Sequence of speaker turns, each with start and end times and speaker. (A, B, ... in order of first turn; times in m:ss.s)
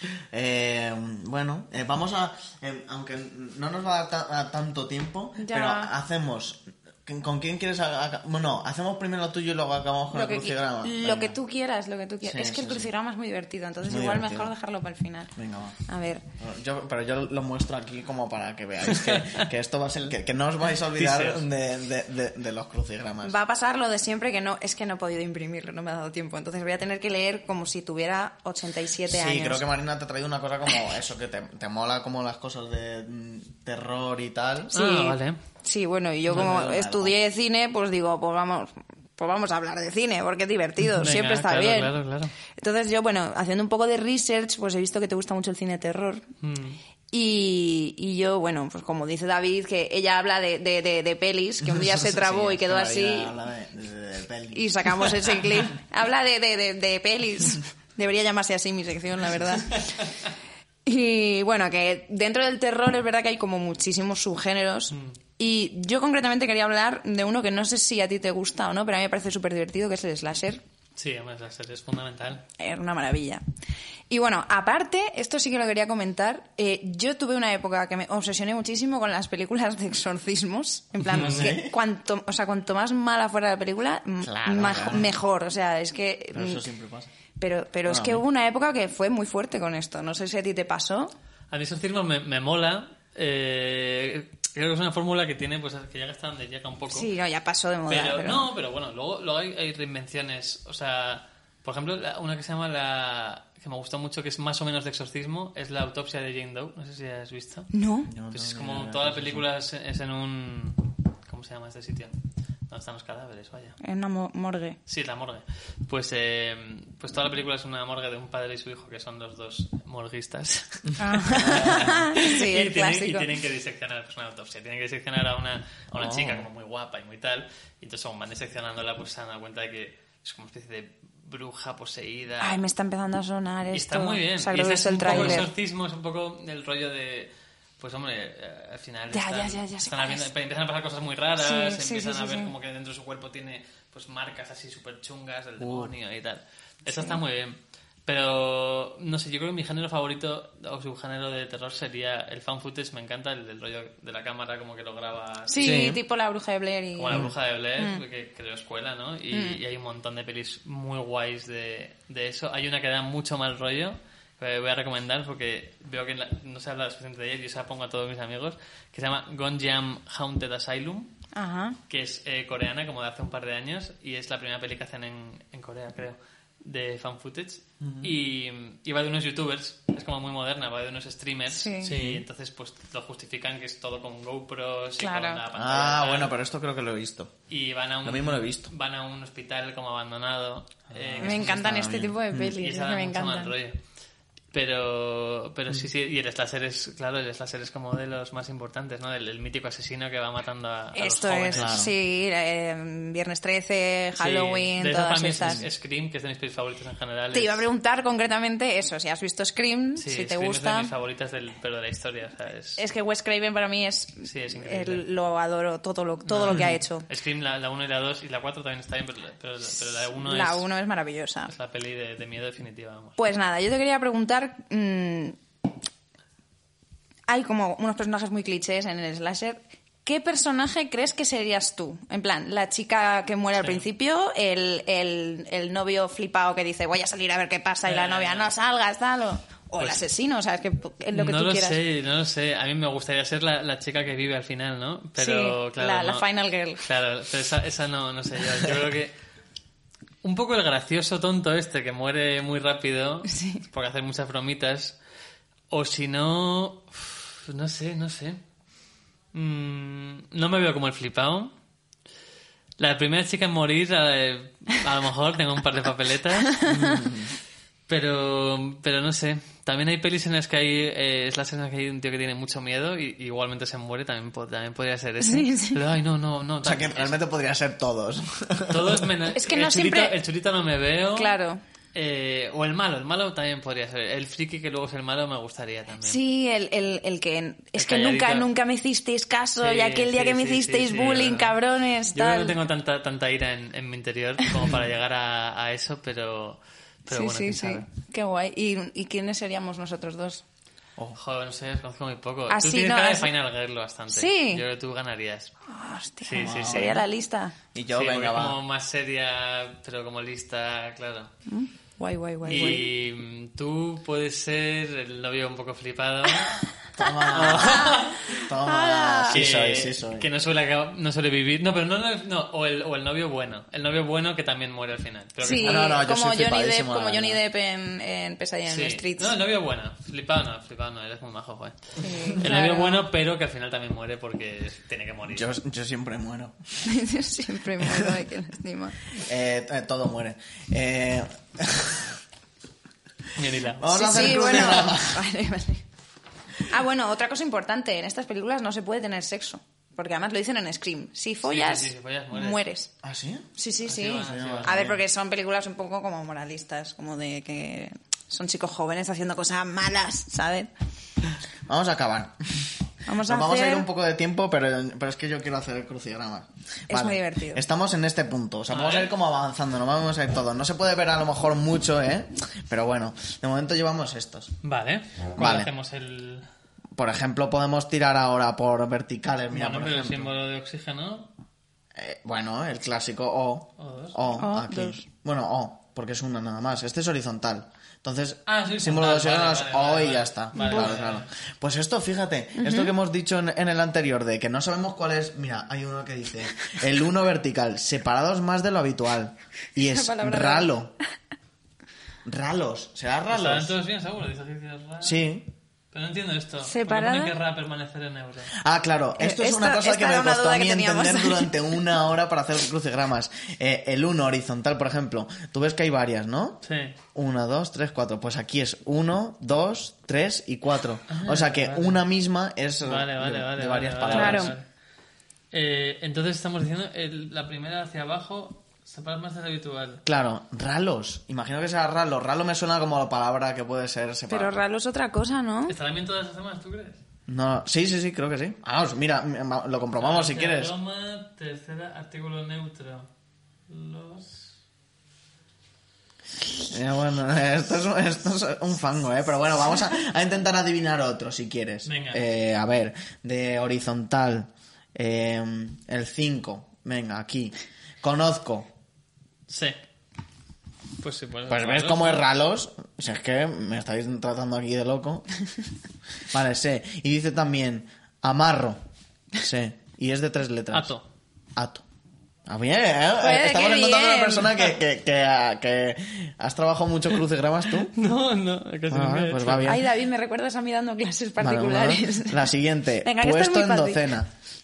0:00.3-0:11.4 A
0:05.4-0:05.9 B
0:10.1-0:15.3 B
0:12.2-0:12.9 A
0:13.8-0:14.5 A
0:15.4-0:15.8 A
0:15.9-0:16.2 B
0:16.4-0:23.4 A
0:18.9-0:19.5 C
0:21.0-0:21.5 C
0:23.2-0:29.6 B
0:29.1-0:34.7 A
0:34.7-0:35.4 C
0:34.7-0:41.9 B
0:36.3-0:37.1 A
0:41.0-0:42.3 C
0:42.6-0:46.3 B
0:46.4-0:46.8 C
0:47.1-0:53.3 B
0:51.6-0:55.4 A
0:54.5-1:00.1 B
0:59.6-1:00.3 C
1:00.9-1:10.6 B
1:04.9-1:05.2 C
1:11.0-1:12.4 C
1:12.6-1:13.4 B
1:14.1-1:26.7 B
1:21.1-1:21.6 C
1:21.1-1:21.8 A
1:24.2-1:25.1 A
1:26.3-1:27.1 A
1:27.4-1:31.1 B
1:27.8-1:28.2 A
1:31.5-1:37.1 C
1:36.9-1:38.5 B
1:37.9-1:47.7 C
1:47.7-1:48.1 B
1:48.1-1:49.5 A
1:48.3-1:52.2 C
1:52.7-1:53.8 C
1:53.8-1:54.8 B
1:54.9-2:12.6 C
2:00.8-2:02.0 A
2:01.0-2:03.4 B
2:05.9-2:06.5 A
2:12.4-2:15.5 B
2:13.7-2:35.8 C
2:15.1-2:15.5 A
2:19.1-2:20.3 B
2:21.4-2:22.5 B
2:25.6-2:25.9 A
2:26.9-2:27.2 B
2:35.5-2:38.0 B
2:35.6-2:36.0 A
2:37.0-2:51.1 C
2:39.3-2:39.6 B
2:51.3-2:51.8 B
2:51.9-3:06.3 C
2:57.8-2:58.1 A
3:01.5-3:02.0 B
3:01.8-3:02.2 A
3:05.0-3:05.4 B
3:05.5-3:07.3 A
3:07.5-3:11.9 C
3:08.0-3:08.7 A
3:10.9-3:12.6 A
3:11.2-3:13.5 B
3:12.5-3:13.8 C
3:14.5-3:21.8 C
3:20.9-3:25.6 B
3:21.5-3:22.0 A
3:24.2-3:27.7 C
3:27.3-3:30.9 B
3:30.0-3:32.8 C
3:32.8-3:37.1 B
3:34.2-3:35.1 C
3:36.2-3:40.7 C
3:36.5-3:36.8 A
3:39.7-3:41.5 B
3:41.5-3:43.2 C
3:43.2-3:45.4 B
3:47.3-4:01.8 B
3:53.6-3:53.9 C
3:57.8-3:58.5 C
4:01.1-4:06.2 C
4:05.2-4:06.8 B
4:06.8-4:09.1 C
4:10.2-4:15.0 C
4:13.3-4:13.6 B
4:15.7-4:18.4 C
4:19.3-4:21.5 C
4:22.8-4:26.6 C
4:26.5-4:27.0 B
4:26.6-4:27.3 A
4:27.9-4:37.2 C
4:35.2-4:35.9 B
4:36.6-4:39.1 A
4:38.7-4:41.3 C
4:39.3-4:40.2 B
4:41.2-4:41.6 B
4:41.9-4:46.2 C
4:46.0-4:52.6 B
4:47.8-4:48.5 C
4:49.6-4:51.5 C
4:52.1-4:57.9 C
4:57.1-5:00.4 B
5:01.2-5:05.5 C
5:02.5-5:03.3 B
5:04.1-5:04.6 B
5:05.7-5:07.6 B
5:06.2-5:07.0 C
5:06.4-5:07.0 A
5:07.7-5:08.6 A
5:07.9-5:11.3 C
5:11.5-5:12.9 B
5:12.4-5:16.6 C
5:12.5-5:12.8 A
5:17.0-5:20.3 A
5:17.0-5:19.4 B
5:17.3-5:18.3 C
5:19.3-5:26.0 C
5:25.4-5:29.4 B
5:25.6-5:27.4 A
5:28.7-5:35.5 C
5:32.0-5:33.1 B
5:32.1-5:32.4 A
5:35.3-5:36.9 A
5:36.8-5:39.0 B
5:37.8-5:38.2 A
5:39.2-5:42.2 A
5:43.4-5:44.9 C
5:43.8-5:45.2 A
5:43.9-5:45.8 B
5:46.6-5:52.9 B
5:51.4-5:52.6 C
5:53.0-5:55.0 A
5:53.6-6:00.7 B
5:53.8-5:54.8 C
6:01.7-6:14.5 A
6:03.1-6:03.9 B
6:06.9-6:07.6 B
6:08.7-6:09.1 C
6:14.6-6:16.5 C
6:15.4-6:15.7 A
6:17.0-6:20.3 A
6:19.5-6:21.3 C
6:22.0-6:40.9 A
6:23.8-6:24.4 C
6:24.4-6:25.0 B
6:28.5-6:31.3 C
6:30.5-6:31.0 B
6:32.6-6:32.9 B
6:39.8-6:40.7 B
6:42.2-6:43.8 A
6:43.3-6:45.2 C
6:45.0-6:45.5 A
6:45.9-6:48.5 C
6:46.6-6:47.4 B
6:48.5-6:56.6 A
6:49.2-6:51.8 B
6:56.6-6:57.0 C
6:57.1-7:04.6 A
7:01.1-7:02.0 C
7:02.8-7:04.7 C
7:04.1-7:04.5 B
7:05.5-7:10.0 C
7:10.0-7:14.6 A
7:14.3-7:15.7 B
7:15.7-7:17.0 C
7:17.3-7:20.7 A
7:20.0-7:23.1 C
7:23.7-7:24.5 C
7:26.7-7:38.7 A
7:31.8-7:32.2 C
7:39.5-7:39.8 C
7:41.0-7:42.3 C
7:41.5-7:45.3 A
7:46.3-7:48.8 A
7:49.4-7:50.9 A
7:50.7-7:51.0 C
7:51.6-7:51.8 A
7:52.5-7:57.9 A
7:53.2-7:54.7 B
7:57.9-7:59.8 C
7:58.9-7:59.9 A
7:59.6-8:02.5 B
8:01.4-8:04.3 A
8:03.0-8:04.1 B